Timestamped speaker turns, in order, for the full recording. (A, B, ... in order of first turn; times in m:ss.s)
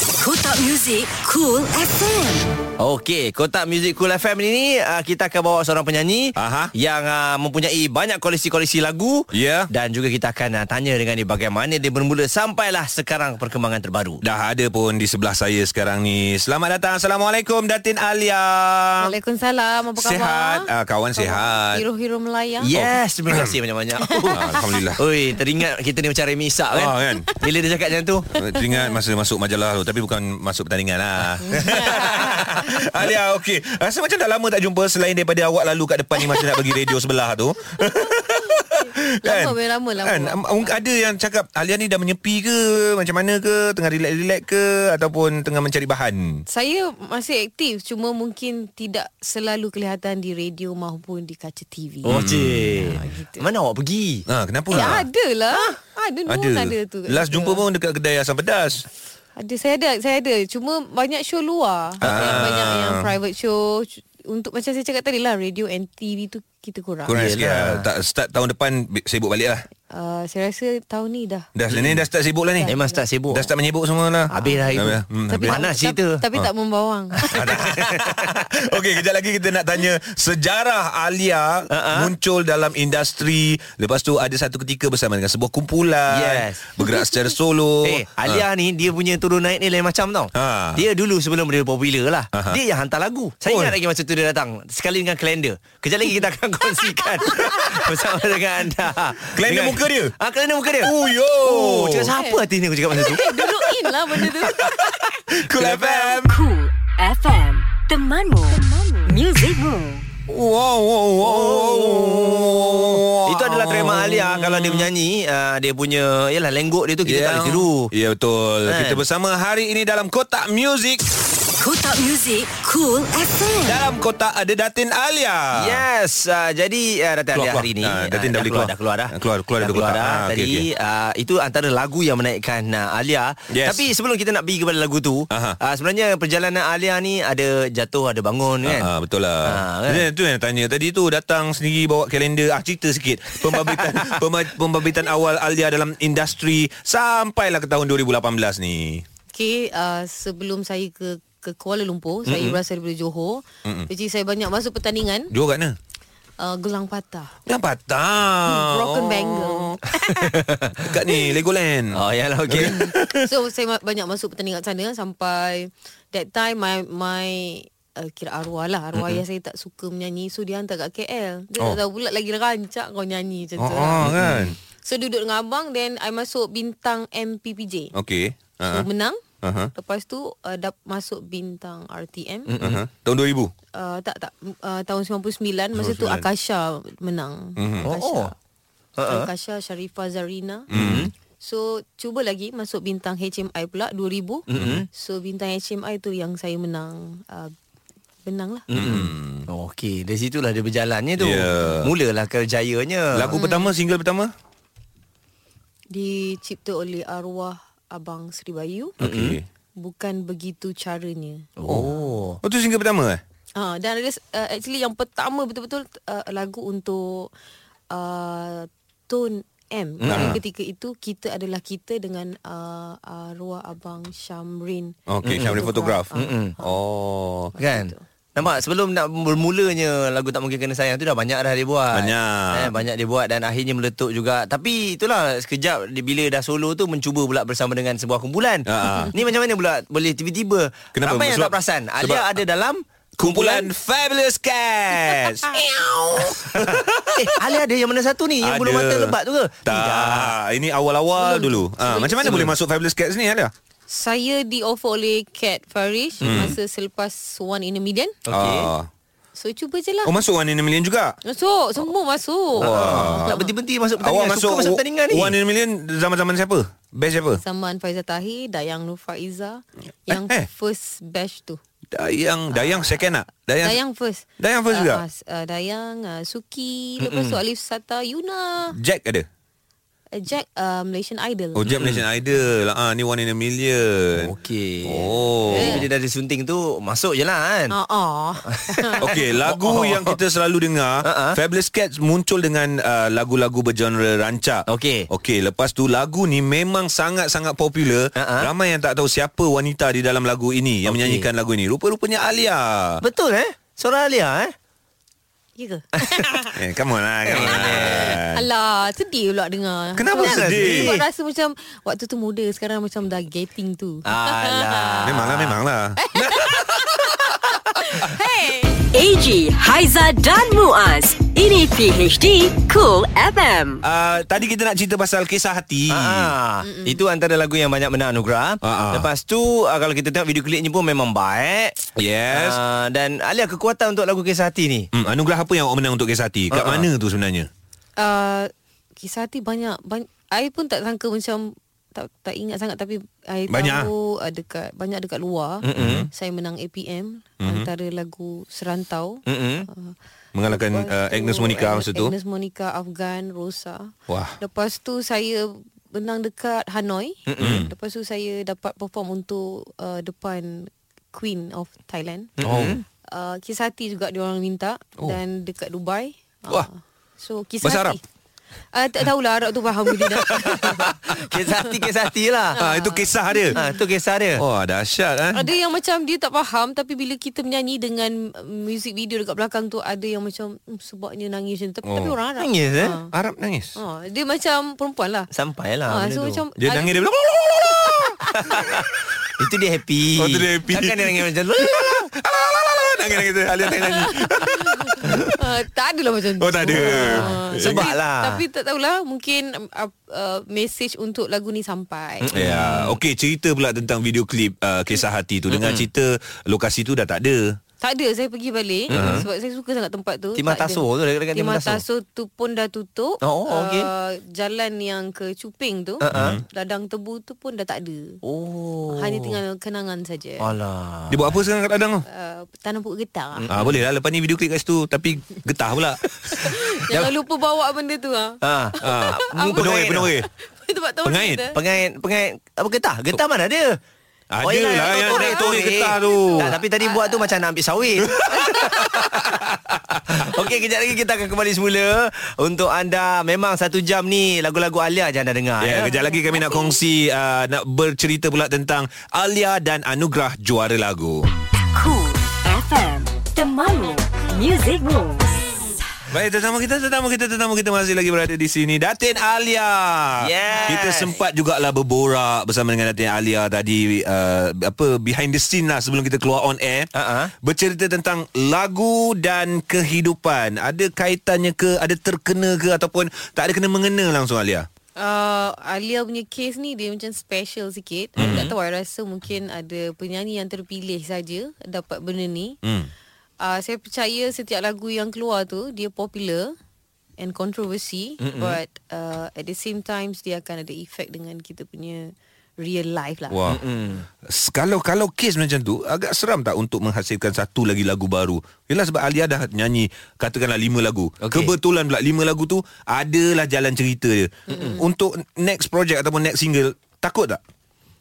0:00.2-0:02.5 A
0:02.8-0:14.2 B
0:06.4-0:06.7 C
0:09.3-0:09.7 C
0:14.2-0:19.2 C
0:19.0-0:22.7 D
0:20.0-0:21.9 C
0:22.6-0:28.3 B
0:22.7-0:23.6 C
0:24.0-0:24.5 D
0:24.3-0:25.0 C
0:26.7-0:27.3 C
0:28.4-0:46.4 C
0:28.4-0:29.0 D
0:31.4-0:32.8 D
0:39.2-0:40.8 D
0:46.5-0:52.3 D
0:52.0-0:54.3 B
0:52.1-0:53.1 C
0:53.0-0:53.4 D
0:54.3-0:55.7 C
0:54.7-0:57.6 D
0:56.3-0:58.8 C
0:59.4-1:07.2 D
1:02.0-1:02.5 B
1:02.0-1:03.1 C
1:07.1-1:09.7 C
1:07.1-1:07.9 B
1:09.9-1:11.5 D
1:11.6-1:12.7 C
1:11.7-1:12.0 B
1:12.6-1:13.0 D
1:12.7-1:13.5 B
1:13.3-1:15.6 C
1:14.3-1:17.7 D
1:14.4-1:16.2 B
1:17.3-1:28.4 C
1:17.3-1:18.6 B
1:21.7-1:22.1 B
1:26.1-1:26.6 B
1:27.8-1:40.9 B
1:30.3-1:30.8 C
1:32.3-1:32.6 C
1:33.4-1:33.8 C
1:37.3-1:37.6 D
1:39.3-1:40.2 C
1:40.8-1:42.1 C
1:41.4-1:43.2 B
1:42.2-1:42.4 D
1:42.9-1:45.0 D
1:44.2-1:44.7 C
1:45.3-1:46.4 C
1:45.5-1:46.2 B
1:46.3-1:50.0 A
1:50.3-1:54.9 C
1:51.2-1:57.9 B
1:57.0-2:01.0 C
1:58.7-1:59.0 B
2:01.6-2:03.8 A
2:03.6-2:05.8 C
2:05.6-2:18.9 B
2:07.3-2:10.6 C
2:13.5-2:13.9 C
2:15.3-2:15.6 C
2:18.6-2:29.0 C
2:19.5-2:20.1 B
2:23.4-2:24.2 B
2:29.3-2:35.3 D
2:32.3-2:32.6 C
2:33.6-2:33.9 C
2:35.3-2:35.8 C
2:36.4-2:37.3 D
2:37.5-2:39.9 C
2:38.5-2:40.3 D
2:40.2-2:41.0 B
2:40.8-2:43.3 C
2:41.9-2:42.9 B
2:42.6-2:54.1 D
2:49.0-2:49.2 B
2:53.6-2:54.6 C
2:54.0-2:54.6 B
2:54.8-2:57.9 D
2:57.9-2:58.9 C
2:58.6-2:59.2 D
2:59.4-2:59.7 C
2:59.8-3:02.5 D
3:02.5-3:02.8 B
3:02.6-3:03.5 C
3:03.8-3:08.4 D
3:05.8-3:06.3 C
3:07.6-3:07.9 C
3:07.8-3:08.3 B
3:09.0-3:09.3 B
3:09.0-3:10.7 D
3:10.7-3:11.1 C
3:10.7-3:11.1 B
3:11.4-3:17.5 D
3:14.5-3:14.9 B
3:14.5-3:14.9 C
3:18.2-3:18.6 D
3:18.7-3:23.3 B
3:18.7-3:19.5 C
3:21.2-3:22.0 C
3:23.1-3:24.3 C
3:23.3-3:23.7 D
3:25.9-3:29.0 D
3:29.0-3:29.5 C
3:29.0-3:29.4 B
3:29.8-3:31.5 D
3:31.6-3:32.4 B
3:31.7-3:33.2 C
3:33.6-3:37.3 D
3:37.9-3:46.8 D
3:40.0-3:40.4 B
3:40.0-3:40.4 C
3:45.1-3:47.5 C
3:45.2-3:46.6 B
3:47.5-3:48.0 D
3:47.6-4:03.7 B
3:51.9-3:52.8 C
3:58.7-3:59.1 C
4:01.0-4:02.4 C
4:03.2-4:07.6 C
4:06.3-4:10.3 B
4:08.4-4:13.5 C
4:11.2-4:12.4 D
4:12.2-4:12.5 B
4:13.9-4:18.2 D
4:16.2-4:16.6 C
4:16.2-4:16.5 B
4:18.3-4:18.7 B
4:18.3-4:18.9 C
4:19.4-4:20.1 D
4:20.0-4:21.2 C
4:21.3-4:23.5 D
4:22.6-4:23.4 C
4:22.6-4:25.4 B
4:24.0-4:27.4 C
4:27.4-4:31.6 D
4:30.1-4:30.5 C
4:31.9-4:33.8 C
4:32.5-4:33.0 D
4:33.6-4:38.8 D
4:34.4-4:35.0 C
4:37.0-4:37.4 B
4:38.8-4:39.3 C
4:40.1-4:41.6 D
4:41.6-4:44.3 C
4:41.7-4:42.0 B
4:44.2-4:47.7 B
4:44.8-4:45.9 C
4:45.5-4:45.8 D
4:47.7-4:49.0 D
4:48.5-4:50.2 B
4:49.0-5:03.0 C
4:51.0-4:51.4 B
4:54.7-4:55.1 B
4:58.2-4:58.5 B
5:00.9-5:01.3 B
5:03.0-5:04.5 B
5:05.6-5:06.6 D
5:06.0-5:06.2 B
5:06.6-5:08.5 C
5:07.3-5:08.2 B
5:07.3-5:15.1 D
5:10.0-5:11.0 C
5:10.2-5:11.1 B
5:14.1-5:15.6 B
5:15.0-5:18.2 C
5:16.0-5:18.9 D
5:18.9-5:23.8 A
5:23.8-5:26.3 C
5:25.9-5:31.8 B
5:26.6-5:27.0 D
5:28.6-5:29.1 C
5:32.0-5:32.6 C
5:32.3-5:34.9 B
5:34.9-5:37.5 C
5:36.5-5:36.9 B
5:38.0-5:49.9 D
5:43.5-5:43.9 C
5:45.6-5:46.1 B
5:45.8-5:46.1 C
5:47.4-5:47.7 C
5:49.3-5:49.7 B
5:50.3-5:52.1 C
5:50.5-6:02.3 D
5:54.1-5:54.4 C
5:57.3-5:57.7 B
5:57.4-5:57.7 C
6:02.4-6:02.8 B
6:02.4-6:02.8 C
6:03.1-6:08.0 D
6:07.6-6:08.0 C
6:08.7-6:11.7 D
6:09.9-6:11.0 C
6:10.6-6:12.6 B
6:12.6-6:13.8 D
6:12.6-6:13.6 C
6:13.5-6:14.4 B
6:14.4-6:15.5 C
6:15.3-6:23.1 D
6:21.9-6:22.2 C
6:22.4-6:23.0 B
6:23.1-6:23.8 C
6:23.8-6:25.3 D
6:25.3-6:26.4 B
6:25.9-6:27.0 D
6:26.6-6:28.7 C
6:27.9-6:28.6 D
6:28.4-6:28.9 B
6:29.4-6:32.0 B
6:30.2-6:35.4 C
6:33.9-6:42.3 D
6:36.4-6:37.9 C
6:36.7-6:38.4 B
6:42.2-6:43.0 B
6:42.3-6:47.6 C
6:45.5-6:45.9 B
6:47.8-6:58.2 D
6:48.9-6:49.3 B
6:48.9-6:49.2 C
6:50.4-6:51.8 B
6:53.2-6:53.9 B
6:56.0-6:56.4 B
6:56.1-6:56.4 C
6:58.2-6:59.4 B
6:58.9-7:00.5 D
7:00.4-7:01.4 B
7:01.1-7:02.0 C
7:02.1-7:03.5 D
7:03.4-7:03.8 B
7:03.5-7:06.6 C
7:06.4-7:11.6 D
7:08.4-7:10.1 B
7:08.8-7:10.3 C
7:11.0-7:11.5 C
7:11.5-7:13.8 B
7:14.3-7:16.6 C
7:14.4-7:19.4 B
7:14.6-7:17.2 D
7:18.2-7:20.2 C
7:18.3-7:18.8 D
7:20.1-7:25.9 B
7:25.6-7:31.3 C
7:26.4-7:26.7 D
7:31.7-7:35.4 A
7:36.1-7:46.9 C
7:40.2-7:41.2 B
7:47.0-7:47.3 B
7:47.4-7:54.7 C
7:55.0-8:02.6 D
7:58.2-7:58.5 C
7:58.2-7:58.5 B
8:02.6-8:02.9 C
8:03.4-8:06.5 D
8:07.2-8:13.4 D
8:08.2-8:08.6 B
8:13.3-8:13.6 C
8:13.5-8:14.1 B
8:14.2-8:27.4 C
8:21.2-8:21.5 B
8:24.5-8:24.8 D
8:24.5-8:24.8 B